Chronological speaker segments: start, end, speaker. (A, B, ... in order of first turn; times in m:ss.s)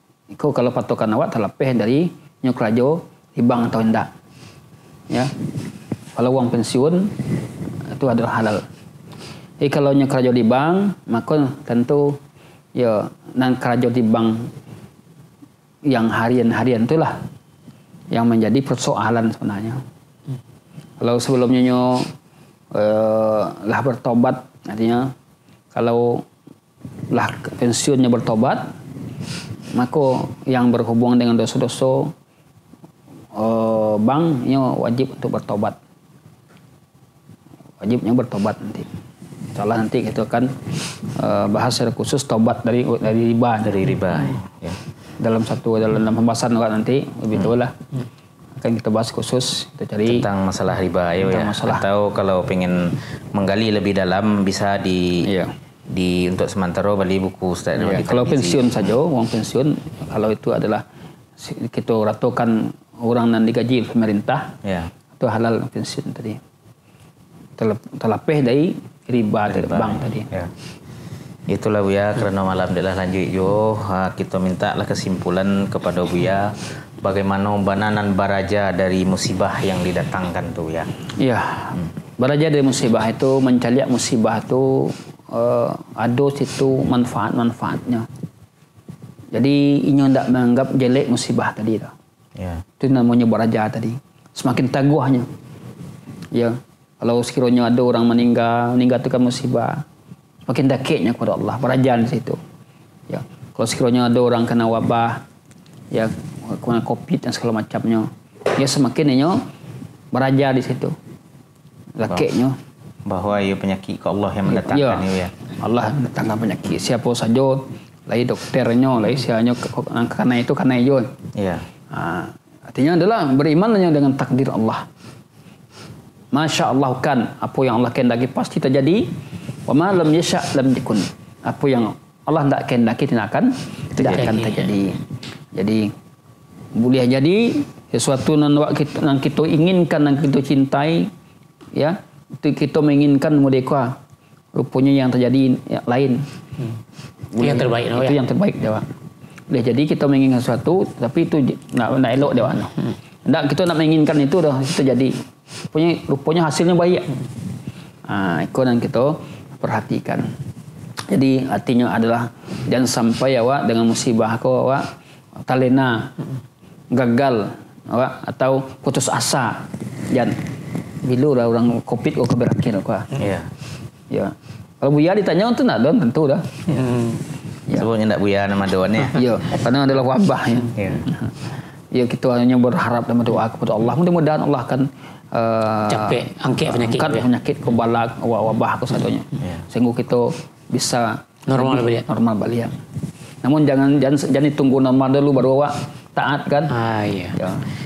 0:00.3-0:04.1 A
0:06.2-0:07.2 A
0:07.9-0:08.6 A
0:09.6-0:12.2 A
0:12.7-0:14.5 A
0:15.9-0:17.2 A
0:18.1-0:19.8 A
0:21.0-0:22.1 A
0:22.7-0:25.1 A
0:25.7-0:26.3 A
0:27.1-0:28.7 A
0:29.7-0:32.1 A
0:33.3-0:35.8 A
0:37.8-0:38.9 A
0:39.5-0:43.9 A
0:43.6-0:44.8 B
0:45.2-0:47.8 A
0:48.6-0:50.3 A
0:50.1-0:55.3 B
0:51.2-0:51.9 A
0:55.2-0:55.6 A
0:55.9-0:58.8 B
0:57.8-1:00.8 A
1:01.4-1:04.5 A
1:04.6-1:04.9 B
1:05.2-1:06.4 A
1:07.6-1:10.3 A
1:09.5-1:10.5 B
1:11.5-1:20.9 B
1:21.2-1:28.1 A
1:29.3-1:31.9 A
1:32.4-1:32.6 B
1:32.8-1:35.3 A
1:36.3-1:39.8 A
1:40.5-1:42.4 A
1:43.1-1:45.2 A
1:45.9-1:49.4 A
1:50.1-1:51.0 A
1:52.0-1:52.6 A
1:53.1-1:55.3 B
1:54.5-2:01.1 A
2:01.4-2:01.7 B
2:01.9-2:04.9 A
2:06.3-2:15.0 A
2:14.0-2:14.3 B
2:14.2-2:14.7 C
2:15.5-2:15.9 A
2:16.8-2:21.1 A
2:21.7-2:24.0 A
2:24.5-2:26.2 A
2:27.3-2:28.8 A
2:27.4-2:28.2 C
2:29.5-2:32.7 A
2:33.2-2:35.2 A
2:35.7-2:37.1 A
2:38.1-2:40.3 A
2:41.1-2:46.1 A
2:46.9-2:50.4 A
2:51.0-2:53.1 A
2:53.2-2:53.5 B
2:54.1-2:56.6 A
2:56.8-2:57.2 C
2:57.8-2:59.2 B
2:59.1-3:01.4 A
3:00.8-3:01.1 B
3:01.9-3:12.8 A
3:05.9-3:07.3 C
3:09.4-3:09.7 B
3:11.5-3:12.1 C
3:13.4-3:16.7 A
3:16.7-3:17.4 C
3:17.4-3:17.7 A